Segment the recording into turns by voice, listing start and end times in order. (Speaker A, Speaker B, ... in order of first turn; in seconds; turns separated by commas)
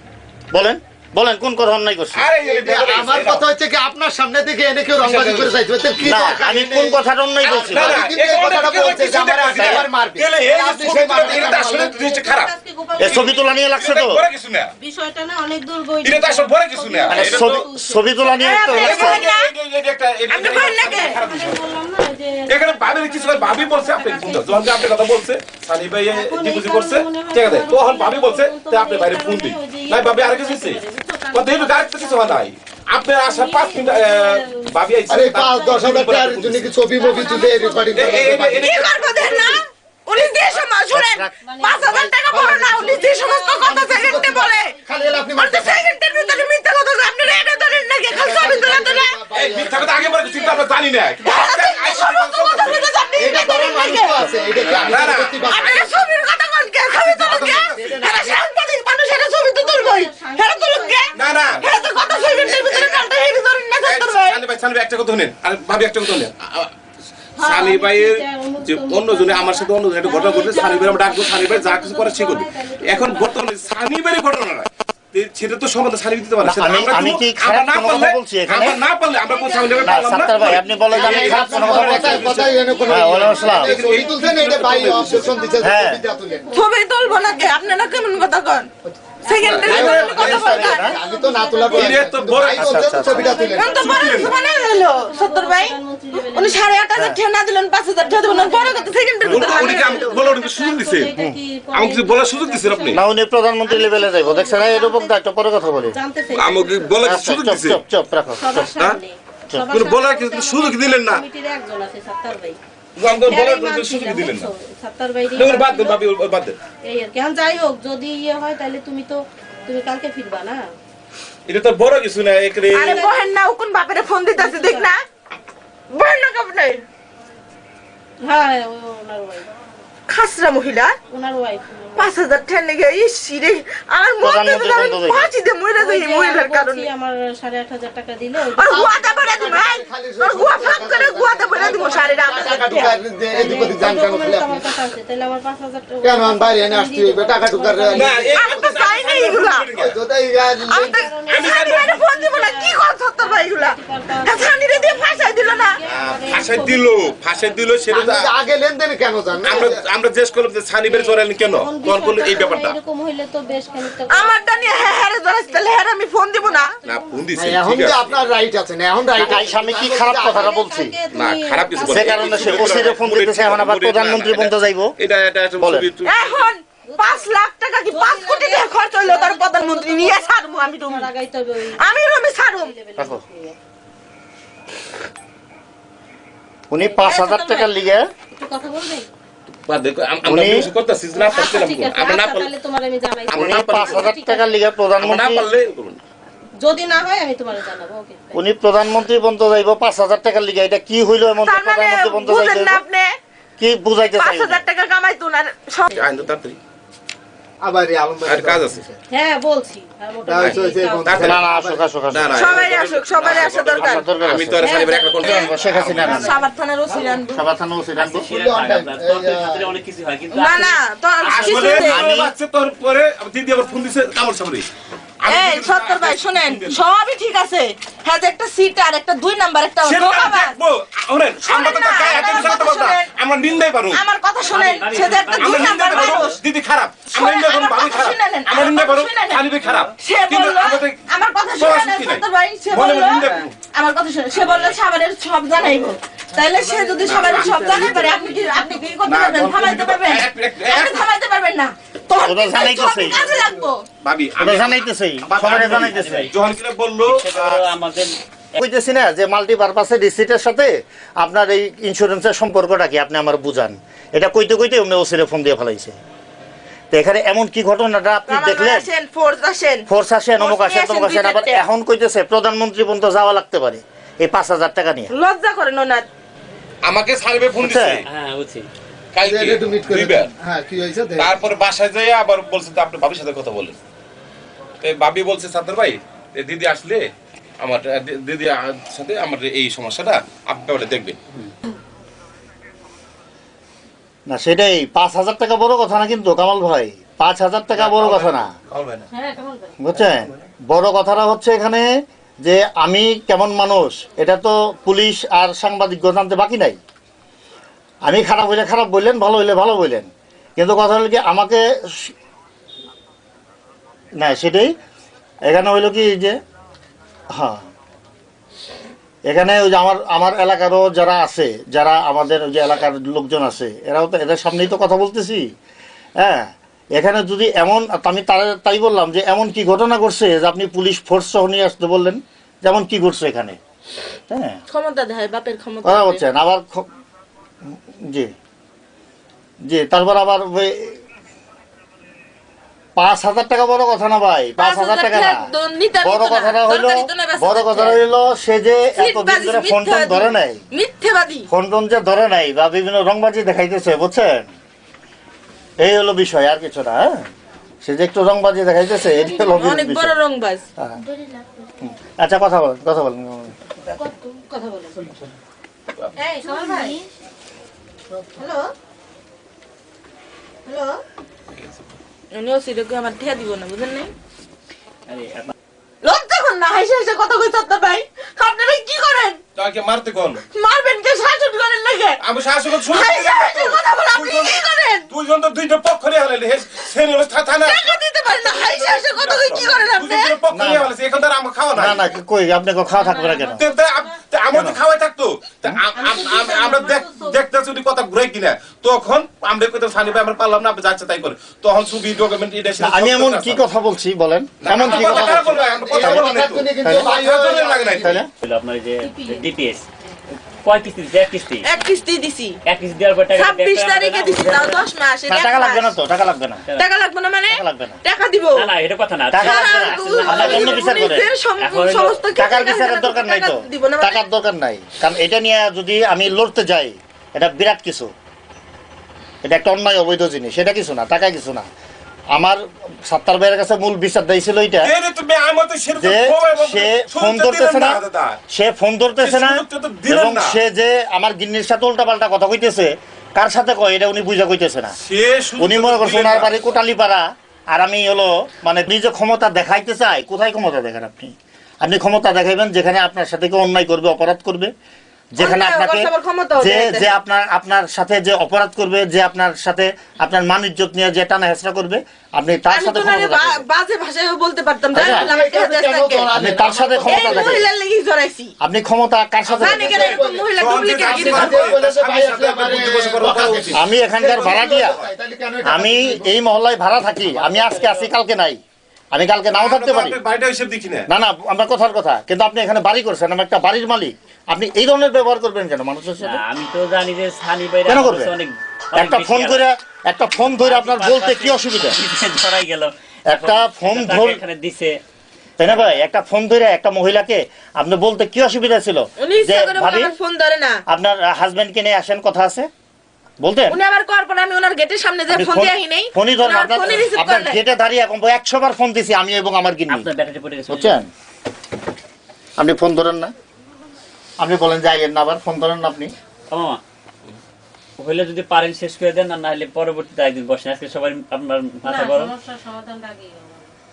Speaker A: 0.5-2.3, Speaker B: 2.1-3.5, Speaker C: 2.4-11.9, Speaker B: 5.0-5.6, Speaker A: 6.0-8.1, Speaker B: 7.5-12.5, Speaker A: 9.6-9.9, Speaker D: 11.1-13.6, Speaker A: 13.0-14.2, Speaker B: 13.0-14.7, Speaker D: 14.8-19.2, Speaker B: 16.0-17.6, Speaker A: 17.1-19.2, Speaker E: 18.4-19.5, Speaker B: 18.7-21.6, Speaker E: 20.3-21.2, Speaker D: 20.9-24.7, Speaker B: 22.5-30.8, Speaker D: 26.1-32.5, Speaker B: 31.3-36.7, Speaker D: 33.2-34.7, Speaker C: 35.1-38.8, Speaker D: 37.0-38.7, Speaker B: 37.9-39.5, Speaker E: 38.5-44.7, Speaker A: 40.9-41.4, Speaker D: 41.4-45.3, Speaker C: 42.3-45.9, Speaker E: 45.4-49.2, Speaker D: 46.1-46.5, Speaker D: 47.4-47.8, Speaker C: 48.1-50.6, Speaker B: 49.3-52.8, Speaker D: 50.0-50.6, Speaker E: 51.2-54.4, Speaker D: 52.6-53.5, Speaker C: 53.2-56.1, Speaker D: 54.3-54.9, Speaker B: 54.6-55.5, Speaker E: 55.4-64.4, Speaker B: 56.9-58.1, Speaker C: 57.3-58.4, Speaker D: 59.5-63.0, Speaker B: 61.1-61.7, Speaker B: 62.4-63.1, Speaker B: 63.8-66.7, Speaker D: 67.4-73.4, Speaker B: 67.4-82.6, Speaker A: 76.4-78.8, Speaker D: 79.3-80.9, Speaker A: 79.8-83.8, Speaker C: 80.9-86.5, Speaker D: 82.0-83.6, Speaker B: 83.6-85.4, Speaker D: 84.8-88.3, Speaker A: 85.6-86.0, Speaker E: 86.5-88.7, Speaker C: 88.9-93.8, Speaker E: 89.2-90.9, Speaker D: 89.3-92.2, Speaker B: 89.6-90.6, Speaker A: 90.2-91.0, Speaker B: 91.7-93.0, Speaker A: 92.6-93.4, Speaker D: 93.0-96.7, Speaker E: 93.5-100.2, Speaker B: 93.8-94.3, Speaker D: 98.0-103.0, Speaker B: 99.3-101.1, Speaker B: 101.7-103.0, Speaker A: 102.9-106.0, Speaker D: 103.7-105.1, Speaker D: 105.9-107.0, Speaker B: 106.3-107.8, Speaker A: 107.0-108.7, Speaker D: 108.4-112.6, Speaker B: 109.6-111.2, Speaker B: 113.0-114.5, Speaker D: 113.3-116.0, Speaker B: 115.3-116.6, Speaker D: 116.9-120.6, Speaker B: 121.5-123.0, Speaker E: 122.7-125.0, Speaker D: 122.7-123.2, Speaker D: 124.3-124.9, Speaker E: 125.9-126.8, Speaker D: 128.2-129.5, Speaker E: 130.1-130.9, Speaker D: 131.1-132.1, Speaker E: 132.0-136.9, Speaker A: 134.2-135.3, Speaker D: 135.8-139.2, Speaker E: 138.6-143.0, Speaker C: 138.7-144.7, Speaker D: 141.5-142.6, Speaker D: 143.3-148.3, Speaker C: 146.0-151.0, Speaker B: 147.9-150.0, Speaker E: 148.3-149.7, Speaker E: 150.7-153.7, Speaker D: 150.8-157.8, Speaker B: 151.3-152.0, Speaker E: 154.2-155.8, Speaker B: 156.0-158.3, Speaker C: 157.9-159.8, Speaker B: 159.4-162.8, Speaker D: 160.8-165.6, Speaker E: 164.1-166.7, Speaker D: 166.4-167.2, Speaker B: 166.8-168.2, Speaker C: 167.3-170.5, Speaker A: 169.2-170.9, Speaker D: 170.1-172.9, Speaker B: 171.1-176.5, Speaker A: 171.9-174.9, Speaker A: 175.6-175.9, Speaker E: 176.0-181.1, Speaker D: 176.9-177.3, Speaker D: 177.9-181.8, Speaker E: 181.8-182.7, Speaker D: 182.6-183.6, Speaker A: 186.7-188.1, Speaker D: 186.8-187.7, Speaker D: 188.3-189.1, Speaker B: 189.5-192.5, Speaker A: 190.2-190.7, Speaker D: 191.2-194.5, Speaker B: 193.3-194.1, Speaker A: 193.3-195.5, Speaker B: 195.0-196.0, Speaker D: 196.6-198.4, Speaker A: 198.3-202.8, Speaker E: 201.4-203.1, Speaker A: 203.6-204.6, Speaker E: 204.2-206.0, Speaker B: 206.0-206.6, Speaker D: 206.0-206.3, Speaker C: 207.6-208.9, Speaker B: 208.2-208.8, Speaker D: 209.1-211.4, Speaker C: 210.2-211.9, Speaker B: 210.4-211.4, Speaker A: 211.2-212.7, Speaker B: 212.1-216.3, Speaker E: 212.3-214.1, Speaker A: 213.2-214.6, Speaker D: 214.6-215.5, Speaker A: 215.2-216.4, Speaker E: 215.2-215.5, Speaker E: 216.0-217.4, Speaker A: 217.3-218.3, Speaker F: 217.9-220.8, Speaker C: 218.3-219.8, Speaker E: 220.3-222.1, Speaker B: 221.2-224.7, Speaker A: 221.3-222.3, Speaker F: 221.3-221.8, Speaker B: 225.2-226.8, Speaker E: 225.3-230.6, Speaker B: 229.8-234.0, Speaker E: 231.4-233.1, Speaker E: 233.9-236.3, Speaker F: 234.4-236.4, Speaker B: 235.3-241.0, Speaker E: 237.1-239.4, Speaker E: 240.0-253.9, Speaker B: 241.5-243.5, Speaker F: 244.4-244.8, Speaker B: 247.0-248.2, Speaker B: 249.0-251.1, Speaker A: 252.2-253.3, Speaker B: 254.0-257.7, Speaker A: 254.4-256.3, Speaker F: 255.4-256.3, Speaker F: 257.0-258.6, Speaker A: 258.6-266.0, Speaker A: 266.9-268.9, Speaker E: 268.3-269.8, Speaker A: 269.9-275.1, Speaker E: 270.4-271.6, Speaker E: 275.1-276.1, Speaker B: 276.8-278.1, Speaker A: 277.6-278.0, Speaker F: 278.1-278.7, Speaker B: 279.1-280.3, Speaker C: 279.2-281.4, Speaker B: 281.2-283.8, Speaker B: 284.8-287.0, Speaker B: 287.6-291.2, Speaker A: 294.3-298.5, Speaker B: 297.7-299.1, Speaker D: 299.1-299.8, Speaker A: 299.8-301.9, Speaker B: 300.0-300.4, Speaker A: 302.4-306.8, Speaker A: 308.0-312.1, Speaker A: 314.2-314.7, Speaker A: 315.5-316.4, Speaker A: 317.3-317.6, Speaker A: 319.3-325.4, Speaker A: 326.2-333.6, Speaker A: 334.3-334.6, Speaker E: 334.7-336.2, Speaker A: 335.8-336.9, Speaker A: 339.7-341.0, Speaker A: 343.0-345.5, Speaker E: 344.6-348.0, Speaker A: 346.0-350.6, Speaker E: 349.0-351.5, Speaker A: 351.5-354.5, Speaker A: 355.8-357.2, Speaker A: 357.8-360.1, Speaker E: 359.3-360.6, Speaker A: 361.8-363.6, Speaker D: 363.9-365.0, Speaker E: 366.2-367.0, Speaker D: 366.4-367.0, Speaker D: 368.4-368.6, Speaker E: 372.3-374.1, Speaker F: 375.1-375.5, Speaker E: 376.0-379.4, Speaker B: 379.6-380.4, Speaker E: 380.5-382.2, Speaker B: 382.2-392.0, Speaker E: 382.7-385.1, Speaker E: 387.6-390.4, Speaker A: 390.5-390.9, Speaker A: 391.8-393.6, Speaker D: 392.9-394.2, Speaker B: 393.6-403.6, Speaker A: 394.5-394.8, Speaker D: 395.9-397.4, Speaker A: 402.8-407.2, Speaker B: 404.6-408.2, Speaker C: 404.8-408.2, Speaker A: 408.0-408.3, Speaker F: 408.4-409.9, Speaker D: 409.0-409.5, Speaker F: 410.6-411.7, Speaker E: 411.6-412.6, Speaker F: 412.7-414.9, Speaker E: 413.3-416.0, Speaker A: 415.3-416.6, Speaker E: 416.7-418.7, Speaker A: 417.5-418.0, Speaker F: 418.5-420.9, Speaker A: 419.3-421.3, Speaker E: 419.4-424.2, Speaker C: 420.3-420.7, Speaker F: 421.6-422.3, Speaker A: 422.4-428.1, Speaker A: 429.4-431.7, Speaker A: 432.3-434.9, Speaker B: 434.8-438.4, Speaker A: 435.9-444.9, Speaker B: 439.2-440.6, Speaker B: 445.0-446.6, Speaker A: 445.6-454.7, Speaker A: 455.4-463.6, Speaker E: 455.4-457.1, Speaker E: 462.7-466.3, Speaker A: 464.9-465.3, Speaker C: 464.9-467.6, Speaker A: 466.4-467.6, Speaker E: 467.1-468.5, Speaker A: 468.6-470.2, Speaker E: 469.5-471.6, Speaker B: 469.6-475.1, Speaker C: 470.0-476.3, Speaker A: 473.8-475.0, Speaker A: 475.6-478.6, Speaker F: 477.2-478.1, Speaker A: 479.1-480.2, Speaker B: 479.5-481.1, Speaker A: 481.1-486.4, Speaker F: 486.2-489.7, Speaker A: 487.9-488.3, Speaker A: 488.9-492.0, Speaker F: 490.4-495.0, Speaker A: 493.3-494.4, Speaker A: 495.6-500.1, Speaker E: 499.2-500.8, Speaker A: 500.9-502.7, Speaker A: 503.4-503.8, Speaker E: 503.7-507.6, Speaker A: 505.3-510.1, Speaker F: 509.9-511.0, Speaker A: 510.7-511.1, Speaker A: 512.6-513.3, Speaker A: 514.4-516.1, Speaker F: 516.5-516.8, Speaker F: 518.0-522.4, Speaker D: 521.8-523.7